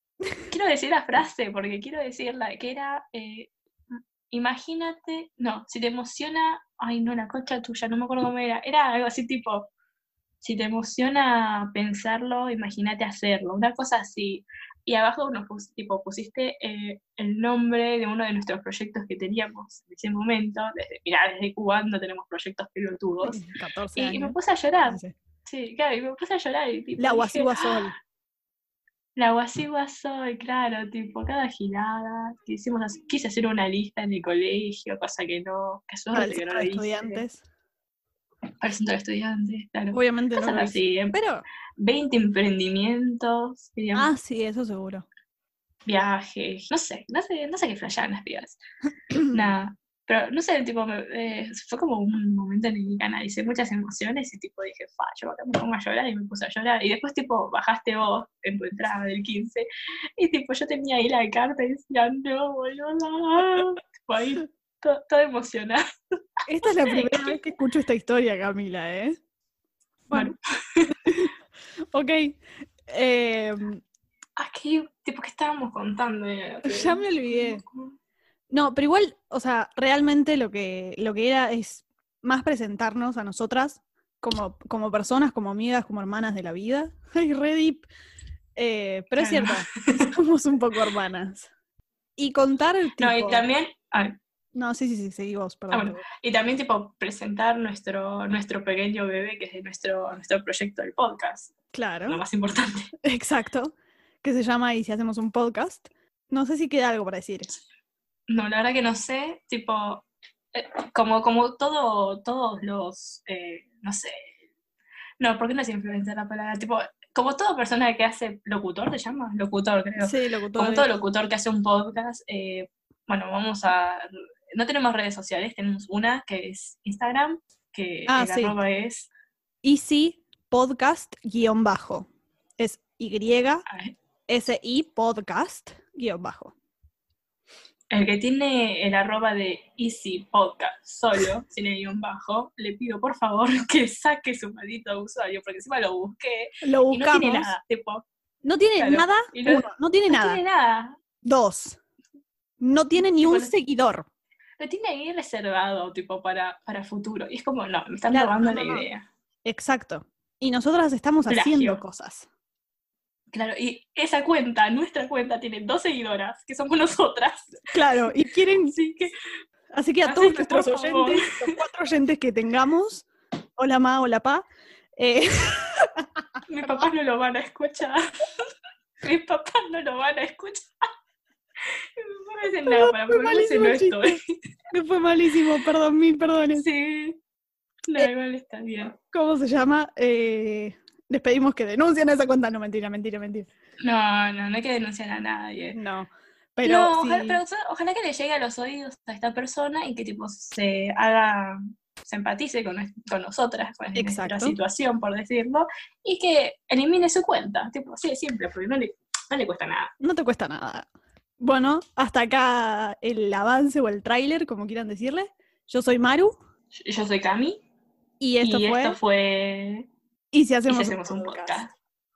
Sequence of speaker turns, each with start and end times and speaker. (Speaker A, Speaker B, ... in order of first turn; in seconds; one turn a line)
Speaker A: 0.5-9.7
Speaker A: 10.4-23.4
Speaker B: 23.2-25.1
Speaker A: 23.9-27.7
Speaker B: 27.0-27.9
Speaker A: 29.1-37.2
Speaker B: 36.1-37.4
Speaker A: 38.6-41.2
Speaker B: 39.9-41.4
Speaker A: 41.8-44.1
Speaker B: 43.9-45.0
Speaker A: 45.9-48.6
Speaker A: 49.2-59.6
Speaker A: 60.2-65.8
Speaker B: 66.5-69.2
Speaker A: 66.6-67.3
Speaker B: 70.1-70.3
Speaker A: 70.1-71.0
Speaker B: 71.9-73.8
Speaker A: 74.4-77.9
Speaker B: 76.6-77.6
Speaker B: 78.5-87.9
Speaker B: 88.5-91.5
Speaker A: 89.2-90.1
Speaker B: 92.2-93.5
Speaker A: 93.0-94.2
Speaker B: 94.5-96.0
Speaker A: 95.7-101.5
Speaker B: 101.7-102.2
Speaker A: 102.1-102.9
Speaker B: 103.1-107.5
Speaker A: 108.3-114.3
Speaker A: 115.2-129.1
Speaker B: 120.0-120.9
Speaker B: 128.1-128.6
Speaker B: 129.6-132.1
Speaker B: 132.6-133.6
Speaker A: 133.7-133.9
Speaker B: 134.3-136.5
Speaker A: 137.9-148.0
Speaker B: 146.6-147.5
Speaker B: 148.4-150.4
Speaker A: 148.8-151.0
Speaker B: 151.2-151.8
Speaker B: 152.6-154.1
Speaker A: 153.0-153.5
Speaker A: 154.6-159.1
Speaker B: 158.1-158.9
Speaker B: 159.4-162.3
Speaker A: 161.3-161.8
Speaker A: 163.3-167.7
Speaker B: 167.7-168.8
Speaker A: 168.5-169.1
Speaker B: 169.7-173.1
Speaker A: 170.0-171.6
Speaker B: 173.6-174.4
Speaker B: 175.0-176.0
Speaker A: 176.5-178.0
Speaker A: 179.0-180.7
Speaker A: 182.0-184.2
Speaker B: 182.7-184.2
Speaker B: 184.7-186.7
Speaker A: 186.5-187.2
Speaker A: 187.9-188.9
Speaker B: 189.1-193.5
Speaker A: 193.8-195.8
Speaker B: 195.7-197.4
Speaker A: 196.6-209.9
Speaker B: 203.9-204.6
Speaker B: 210.0-210.9
Speaker B: 211.4-216.3
Speaker A: 216.7-217.6
Speaker B: 218.2-219.0
Speaker A: 218.4-219.9
Speaker B: 220.3-221.6
Speaker A: 220.7-221.7